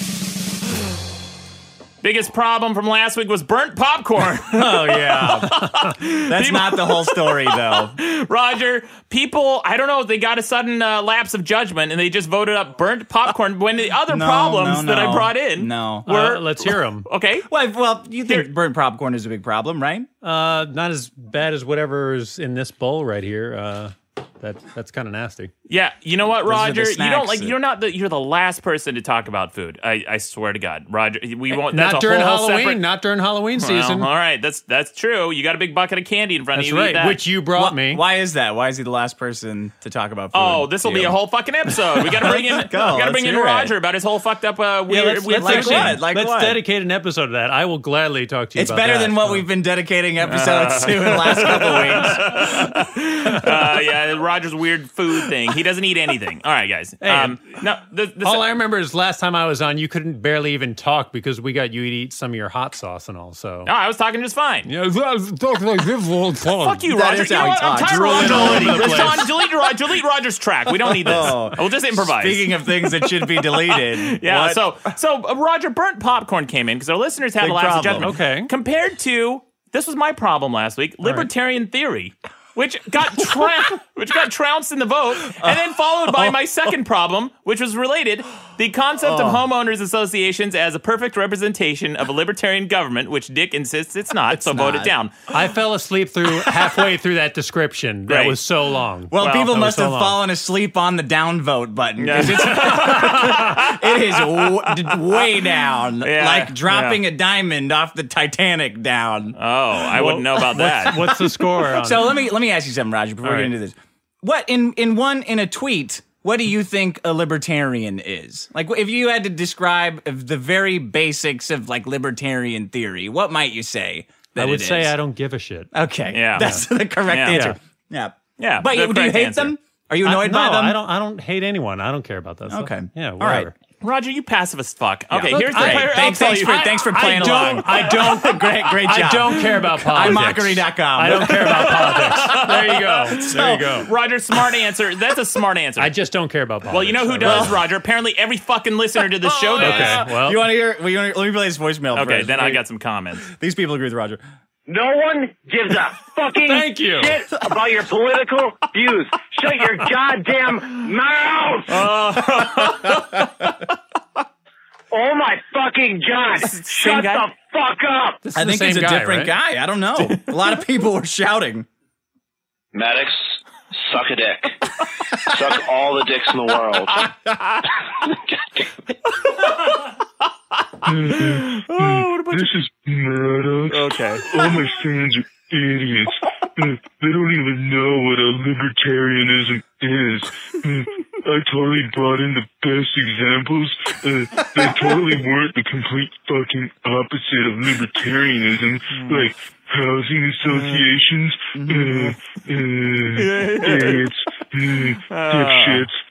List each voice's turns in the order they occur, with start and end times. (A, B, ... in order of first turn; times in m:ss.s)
0:02.0-0:17.5 A
0:04.5-0:05.6 B
0:06.3-0:08.0 B
0:14.1-0:16.1 B
0:16.0-0:17.1 C
0:17.5-0:20.1 B
0:20.2-0:25.5 C
0:25.7-0:32.8 A
0:26.4-0:27.6 B
0:31.5-0:34.1 C
0:33.6-0:37.2 A
0:36.5-0:38.0 C
0:37.5-0:41.2 B
0:40.3-0:46.0 A
0:42.0-0:43.7 B
0:44.9-0:46.6 B
0:44.9-0:49.4 C
0:48.5-0:52.6 B
0:50.2-0:58.5 A
0:57.0-0:57.4 C
0:58.2-1:03.7 C
1:03.6-1:04.7 A
1:04.6-1:06.8 C
1:06.6-1:35.2 A
1:06.8-1:09.2 B
1:07.7-1:09.3 C
1:11.0-1:14.7 B
1:17.4-1:18.2 B
1:18.0-1:18.5 C
1:21.0-1:21.3 C
1:25.4-1:26.4 B
1:29.0-1:29.4 B
1:34.3-1:34.9 B
1:35.3-1:40.2 C
1:38.1-1:38.4 A
1:39.1-1:49.4 B
1:39.2-1:39.4 A
1:42.0-1:45.4 A
1:42.7-1:43.4 C
1:46.0-1:47.0 A
1:49.4-1:51.3 A
1:49.9-1:52.1 C
1:51.6-2:04.9 B
1:53.2-1:53.5 C
2:04.4-2:05.7 C
2:05.7-2:10.8 B
2:06.1-2:07.4 A
2:06.3-2:06.6 C
2:07.2-2:07.6 C
2:08.4-2:09.5 A
2:10.0-2:13.5 C
2:12.5-2:13.5 B
2:13.8-2:17.6 A
2:15.1-2:22.1 B
2:15.3-2:23.9 C
2:21.3-2:25.9 A
2:23.0-2:23.8 B
2:25.8-2:27.6 C
2:26.7-2:30.1 A
2:27.2-2:27.6 B
2:29.4-2:30.5 C
2:29.6-2:32.6 B
2:31.9-2:33.3 A
2:33.3-2:34.2 B
2:34.7-2:41.9 D
2:36.4-2:37.2 C
2:41.7-2:43.3 A
2:44.9-2:48.2 D
2:46.3-2:47.3 A
2:48.2-2:49.4 C
2:48.3-2:51.7 B
2:52.7-2:54.5 E
2:55.2-2:57.1 E
2:59.2-2:59.9 A
3:00.8-3:26.0 F
3:01.1-3:02.5 A
3:03.7-3:04.2 A
3:18.9-3:19.3 A
3:21.5-3:22.2 B
3:23.1-3:24.0 A
3:25.1-3:25.9 A